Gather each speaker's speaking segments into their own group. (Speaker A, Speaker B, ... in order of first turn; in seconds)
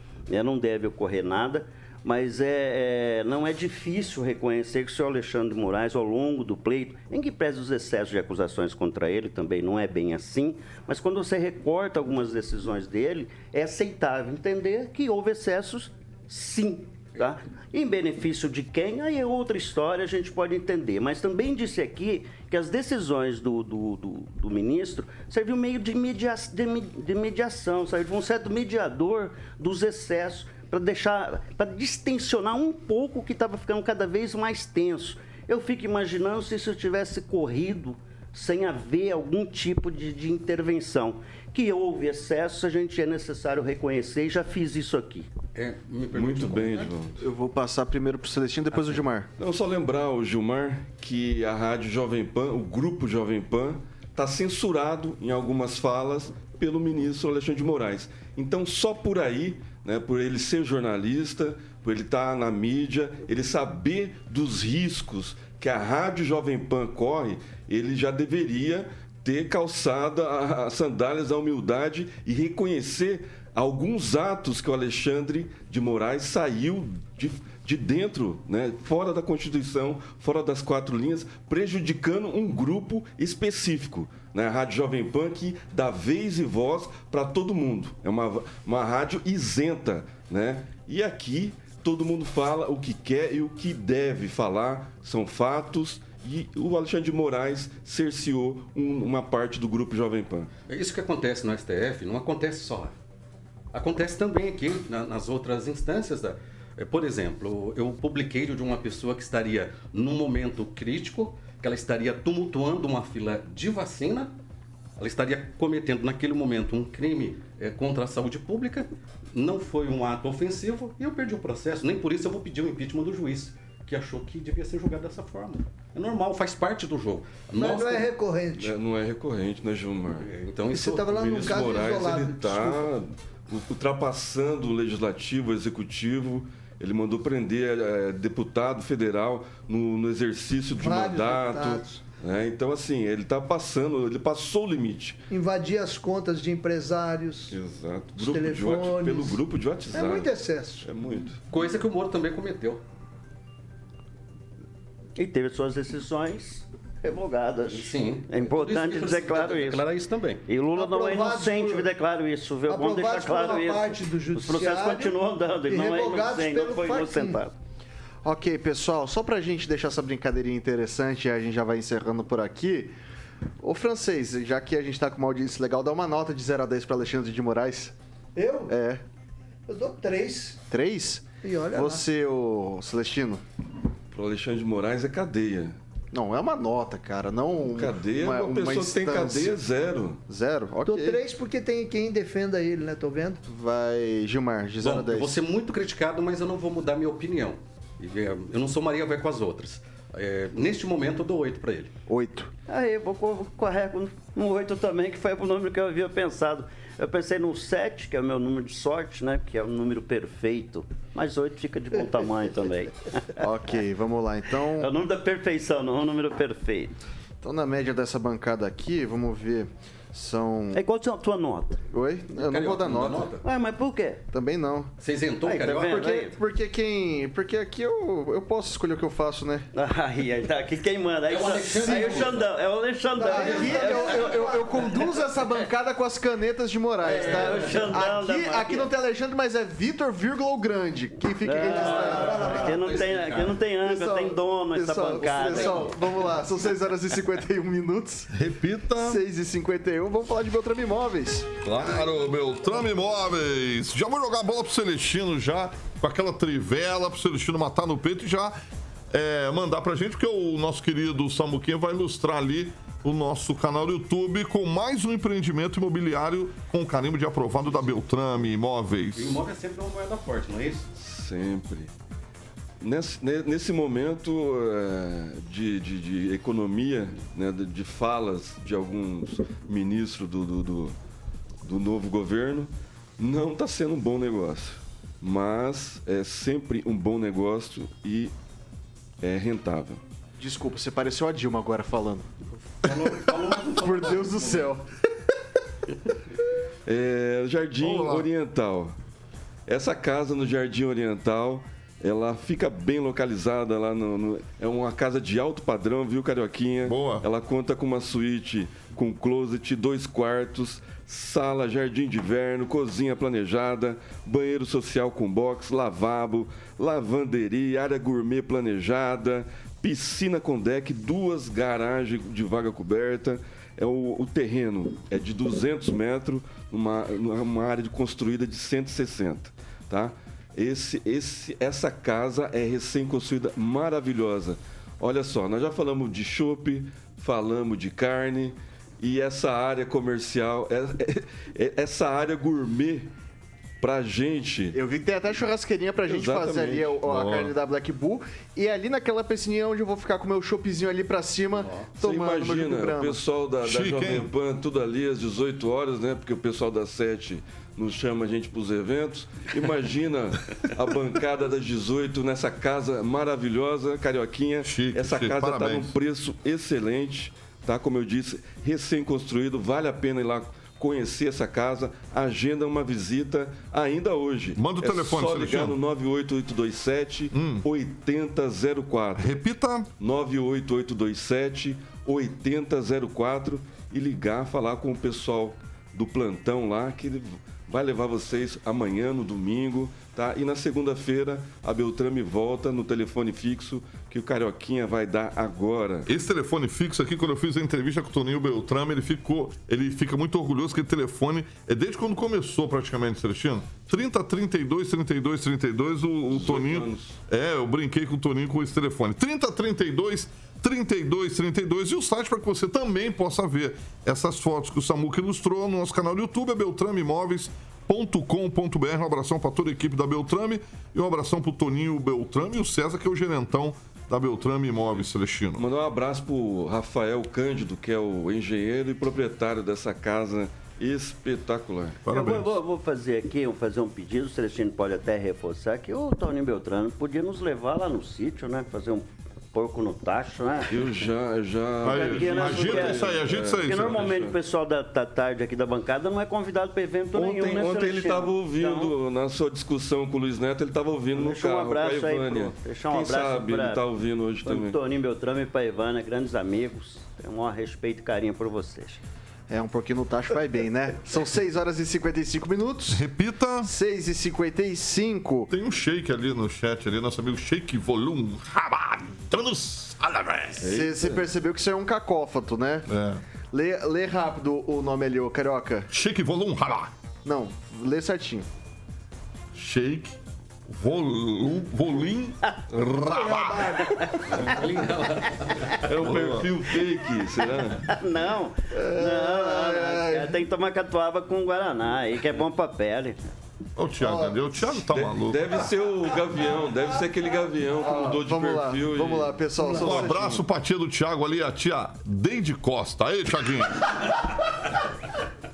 Speaker A: 0.3-45.3, 155.2-159.8, 160.5-167.6, 202.7-213.4, 214.8-216.9, 220.7-221.8, 223.4-224.2, 225.4-226.4, 229.7-234.9, 237.1-238.9, 241.4-245.9, 432.1-440.8, 441.9-443.1, 443.6-448.9, 451.1-453.8, 454.4-459.0, 483.8-484.2, 487.8-493.2
Speaker B: 45.5-46.9, 100.7-102.9, 103.7-114.3, 115.0-128.1, 130.2-131.2, 151.5-152.8, 157.7-160.4, 194.8-201.9, 222.3-223.4, 225.0-226.0, 231.3-232.5, 237.3-237.6, 241.7-243.6, 245.3-245.9, 269.2-270.9, 292.8-294.7, 484.3-485.8
Speaker C: 46.1-47.2, 49.4-100.5, 128.6-130.3, 131.1-145.2, 147.5-150.3, 150.8-151.4, 184.1-185.8, 187.8-190.2, 270.9-271.9, 272.8-280.9, 281.6-288.3, 289.2-290.0, 296.9-298.9, 299.7-343.1, 343.8-344.8, 346.1-347.0, 352.0-379.4, 380.0-396.1, 406.3-407.2, 425.6-432.0, 440.7-444.4, 447.1-454.8, 470.6-471.2, 485.8-487.9, 494.9-499.4
Speaker D: 47.2-49.3, 168.2-172.9, 173.6-177.9, 178.7-179.0, 180.7-183.4, 186.1-189.5, 190.3-191.2, 193.5-195.4, 202.1-202.5, 213.4-214.9, 217.4-220.8, 221.9-223.3, 224.3-224.9, 225.6-229.7, 233.3-242.5, 243.8-248.3, 249.0-251.5, 290.4-292.3, 293.6-294.9, 344.7-353.2, 459.5-463.0, 463.6-465.5, 470.6-472.9, 473.5-475.9, 477.2-478.5, 488.7-490.5, 494.0-494.8, 497.8-500.5
Speaker E: 127.6-128.8, 130.7-132.9, 140.8-142.0, 145.3-147.6, 148.2-150.9, 160.8-161.9, 162.7-167.4, 178.3-178.7, 179.7-180.6, 181.4-182.1, 190.9-193.4, 233.2-234.7, 241.7-242.8, 483.1-484.1, 499.6-500.0
Speaker F: 248.3-249.2, 251.6-258.6, 259.1-269.4, 297.8-298.3, 306.9-307.2, 347.1-347.5, 353.6-354.3, 364.6-365.9, 374.6-375.8, 377.3-377.6, 379.2-379.9, 396.1-425.6, 432.1-432.6, 441.8-444.1, 462.9-463.7, 465.5-470.7, 472.9-473.2, 475.9-476.9, 479.6-480.2, 480.7-484.2, 486.0-486.5, 493.8-495.6, 499.7-504.7